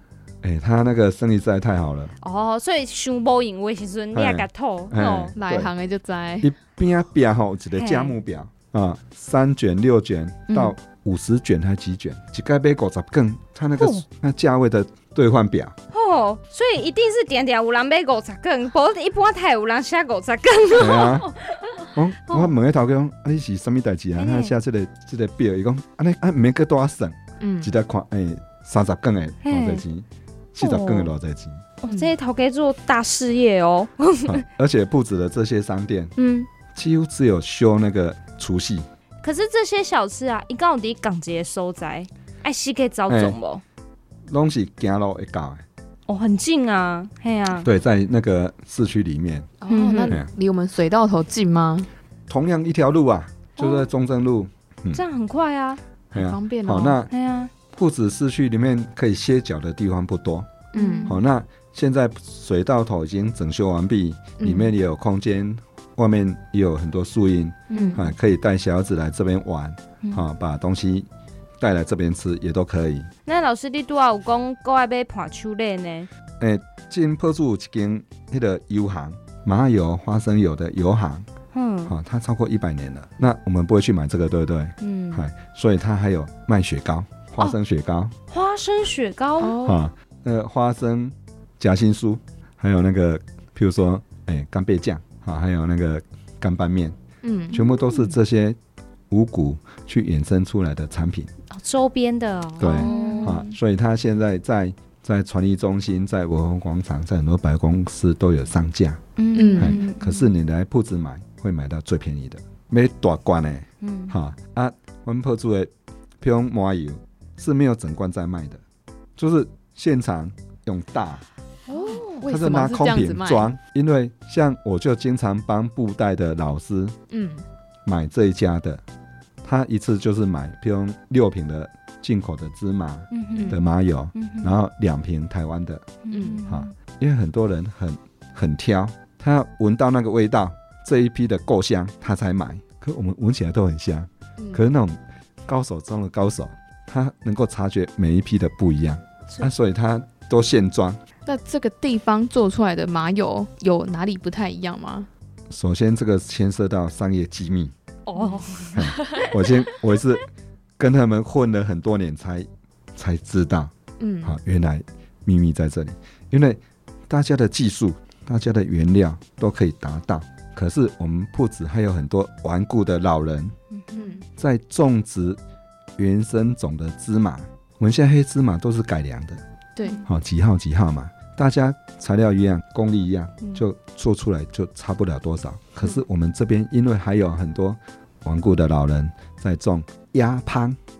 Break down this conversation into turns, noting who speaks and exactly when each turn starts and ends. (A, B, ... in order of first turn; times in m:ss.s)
0:00.4-0:02.1 A
0:02.2-0:05.4 B
0:04.1-0:05.7 A
0:05.4-0:06.5 C
0:06.4-0:15.7 A
0:07.7-0:08.1 B
0:10.5-0:10.7 C
0:13.8-0:14.0 B
0:15.9-0:22.5 B
0:20.8-0:21.3 A
0:21.9-0:31.6 A
0:24.1-0:24.6 B
0:27.4-0:27.7 C
0:29.4-0:29.8 B
0:30.6-0:31.1 B
0:31.8-0:34.4 B
0:34.3-0:36.1 A
0:36.2-0:36.5 B
0:36.7-0:38.8 A
0:39.2-0:43.6 B
0:43.1-0:43.4 A
0:44.3-0:45.6 A
0:46.1-0:47.7 B
0:47.6-0:49.5 A
0:49.6-0:51.9 C
0:49.7-0:50.2 B
0:52.3-0:55.0 A
0:53.6-0:53.9 B
0:54.9-0:55.8 B
0:56.1-0:57.1 A
0:56.1-0:57.0 C
0:57.1-0:57.5 B
0:57.7-1:00.5 A
1:00.7-1:01.2 C
1:00.8-1:01.2 B
1:01.0-1:11.1 A
1:04.4-1:04.7 C
1:07.7-1:08.1 B
1:07.7-1:08.0 C
1:11.6-1:13.1 A
1:13.2-1:16.1 B
1:16.4-1:21.2 A
1:21.5-1:21.9 B
1:21.9-1:28.1 A
1:24.8-1:25.2 B
1:28.3-1:29.6 B
1:29.4-1:29.8 C
1:29.6-1:37.0 A
1:37.2-1:37.6 C
1:37.5-1:38.6 A
1:37.5-1:38.2 B
1:39.1-1:41.3 A
1:41.5-1:43.5 B
1:42.6-1:49.0 A
1:42.6-1:43.5 C
1:49.2-1:50.3 B
1:49.3-1:49.9 C
1:49.6-1:58.6 A
1:53.8-1:54.1 B
1:59.2-2:01.2 A
2:01.7-2:02.2 B
2:01.7-2:03.5 C
2:02.2-2:07.0 A
2:07.1-2:07.4 C
2:07.8-2:08.8 A
2:09.4-2:15.9 A
2:13.1-2:13.6 B
2:13.4-2:13.6 C
2:14.1-2:14.5 B
2:16.0-2:16.7 B
2:16.1-2:16.4 C
2:16.5-2:31.0 A
2:31.2-2:35.1 C
2:35.5-2:37.7 A
2:38.1-2:39.2 B
2:38.2-2:39.3 C
2:38.7-2:40.2 A
2:40.8-2:43.7 A
2:44.0-2:44.3 C
2:44.2-2:53.5 A
2:53.7-2:54.2 B
2:54.0-2:54.2 C
2:54.4-2:55.4 A
2:56.0-2:59.4 A
2:59.8-3:00.0 C
3:00.0-3:10.8 A